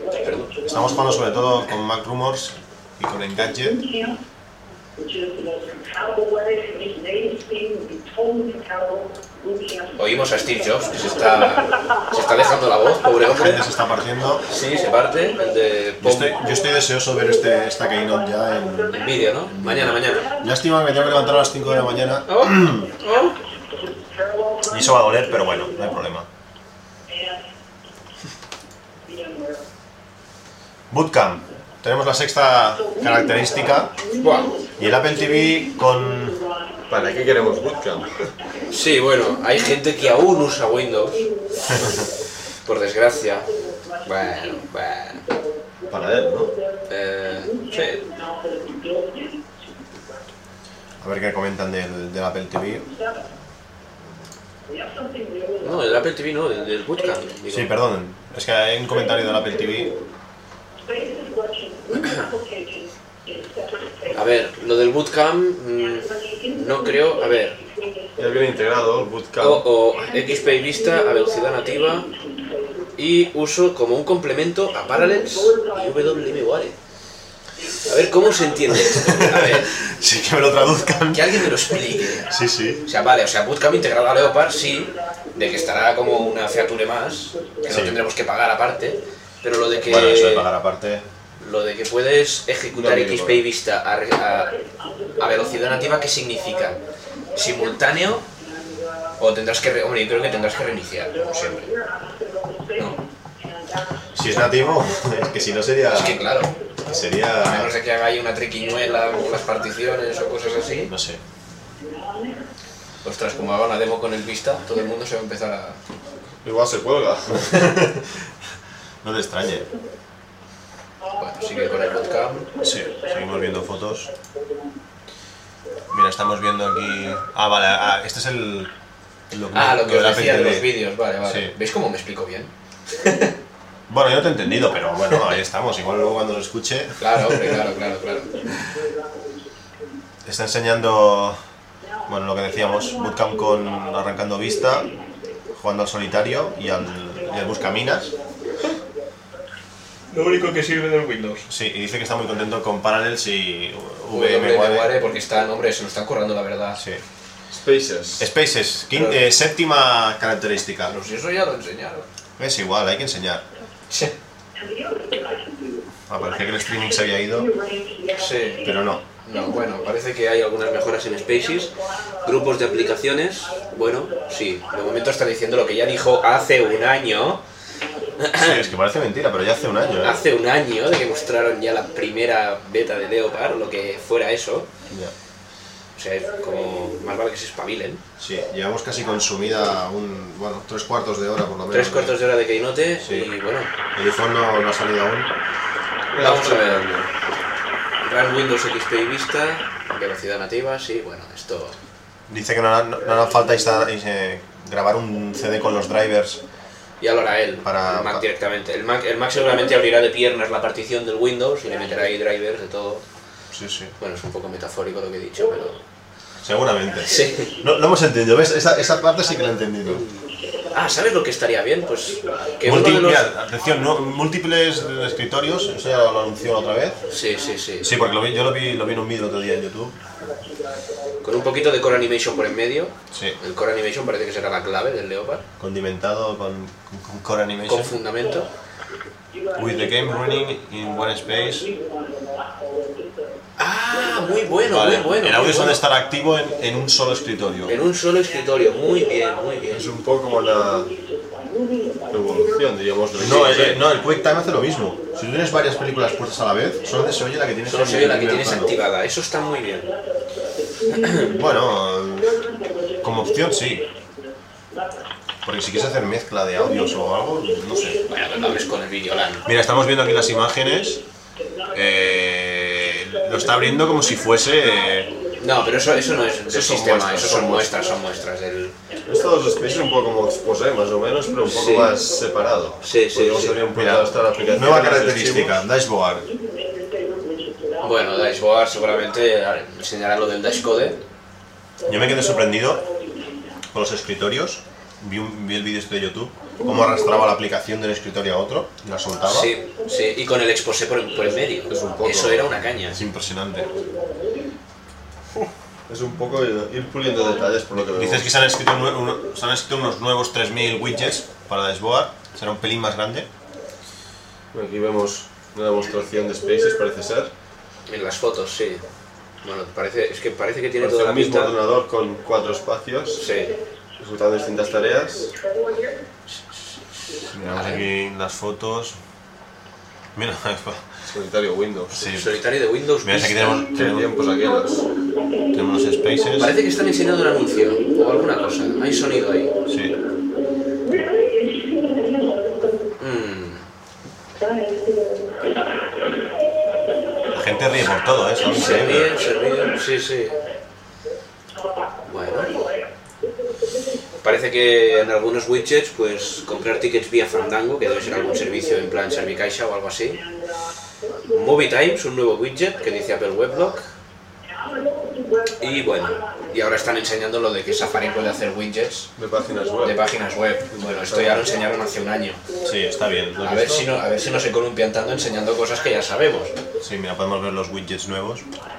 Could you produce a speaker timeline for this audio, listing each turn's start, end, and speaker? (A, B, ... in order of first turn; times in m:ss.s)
0:00.2-0:00.6 A
0:00.6-0:03.8 B
0:10.0-0:13.6 A
0:13.2-0:14.4 B
0:14.5-0:16.4 A
0:16.0-0:22.9 B
0:18.9-0:20.3 A
0:22.3-0:23.4 A
0:24.7-0:26.3 B
0:30.9-0:34.0 B
0:34.2-0:34.5 A
0:34.8-0:36.4 B
0:36.9-0:38.1 C
0:38.7-0:41.3 A
0:42.6-0:43.5 A
0:44.0-0:45.2 A
0:45.9-0:46.5 C
0:46.9-0:48.1 A
0:51.0-0:52.9 B
0:55.6-0:57.7 A
0:57.5-1:00.0 B
1:01.9-1:02.3 A
1:04.1-1:07.6 A
1:08.2-1:09.6 C
1:09.4-1:12.1 A
1:13.0-1:16.8 A
1:17.8-1:19.7 A
1:18.7-1:22.8 B
1:21.1-1:22.3 A
1:22.8-1:30.5 A
1:27.7-1:28.0 B
1:29.8-1:31.0 B
1:31.4-1:34.5 A
1:32.7-1:33.4 C
1:35.2-1:36.8 A
1:37.3-1:38.2 A
1:39.2-1:41.7 A
1:44.1-1:46.2 B
1:45.9-1:46.5 A
1:46.8-1:47.7 B
1:47.4-1:50.9 A
1:50.9-1:51.2 B
1:53.0-1:55.8 A
1:56.4-1:57.7 C
1:57.5-1:58.0 B
1:59.0-1:59.7 B
2:01.2-2:02.5 A
2:02.6-2:04.1 B
2:05.9-2:08.7 B
2:09.3-2:10.7 B
2:09.5-2:13.3 A
2:11.2-2:11.5 B
2:13.9-2:17.6 B
2:17.0-2:18.4 A
2:20.2-2:21.4 B
2:22.1-2:24.9 B
2:25.5-2:28.1 B
2:30.1-2:31.4 A
2:31.5-2:34.9 B
2:34.1-2:36.8 A
2:36.8-2:37.0 B
2:37.5-2:38.3 C
2:38.2-2:40.9 B
2:38.9-2:39.2 A
2:40.8-2:42.1 A
2:42.4-2:43.4 B
2:46.1-2:47.5 B
2:48.1-2:48.6 A
2:48.6-2:49.0 B
2:49.2-2:57.4 A
2:58.2-2:58.7 A
2:58.4-3:00.2 B
3:00.0-3:04.7 A
3:06.0-3:08.0 A
3:08.2-3:12.2 B
3:11.7-3:13.7 A
3:13.0-3:13.3 B
3:13.9-3:15.3 B
3:16.1-3:17.1 C
3:16.2-3:16.9 A
3:18.0-3:21.8 A
3:22.3-3:26.4 B
3:27.0-3:33.0 A
3:27.6-3:28.2 B
3:33.5-3:33.9 B
3:34.0-3:35.8 A
3:36.4-3:40.0 B
3:37.0-3:37.5 A
3:40.7-3:43.3 A
3:42.6-3:47.0 B
3:47.1-3:47.9 A
3:47.8-3:50.0 B
3:51.2-3:55.4 A
3:53.1-3:53.4 B
3:55.6-3:58.0 B
3:57.6-3:58.5 A
3:59.5-4:01.7 B
4:03.6-4:05.8 A
4:04.6-4:07.7 B
4:07.6-4:09.9 A
4:09.7-4:10.9 C
4:12.1-4:13.8 C
4:13.2-4:18.7 B
4:17.6-4:19.9 A
4:20.9-4:21.3 A
4:21.2-4:22.4 B
4:23.0-4:23.8 B
4:25.4-4:28.0 B
4:28.0-4:29.4 A
4:29.4-4:31.0 B
4:31.7-4:35.1 B
4:35.4-4:38.7 A
4:36.4-4:37.7 B
4:39.0-4:45.6 C
4:41.4-4:41.9 A
4:42.8-4:43.6 A
4:43.7-4:46.3 B
4:47.8-4:51.0 A
4:51.8-4:52.8 B
4:53.7-4:59.5 B
4:59.3-5:03.0 A
5:01.7-5:02.5 C
5:02.9-5:03.7 B
5:05.9-5:08.3 C
5:07.8-5:13.3 B
5:14.5-5:17.3 C
5:17.9-5:18.8 A
5:19.4-5:21.5 A
5:20.8-5:23.2 C
5:23.1-5:23.6 A
5:24.0-5:25.3 C
5:27.0-5:27.8 A
5:27.3-5:29.0 B
5:30.2-5:30.9 B
5:31.1-5:32.0 C
5:31.9-5:33.7 A
5:31.9-5:32.4 B
5:33.0-5:34.1 B
5:33.7-5:34.8 C
5:35.5-5:36.5 B
5:36.4-5:39.5 A
5:39.7-5:39.9 B
5:43.0-5:43.6 A
5:47.3-5:49.1 B
5:48.4-5:50.4 A
5:52.0-5:52.6 A
5:54.2-6:00.2 A
6:01.3-6:03.9 A
6:05.6-6:09.1 A
6:09.2-6:10.0 C
6:09.8-6:12.4 A
6:10.7-6:11.5 C
6:12.6-6:13.9 B
6:13.4-6:16.5 A
6:16.8-6:18.4 B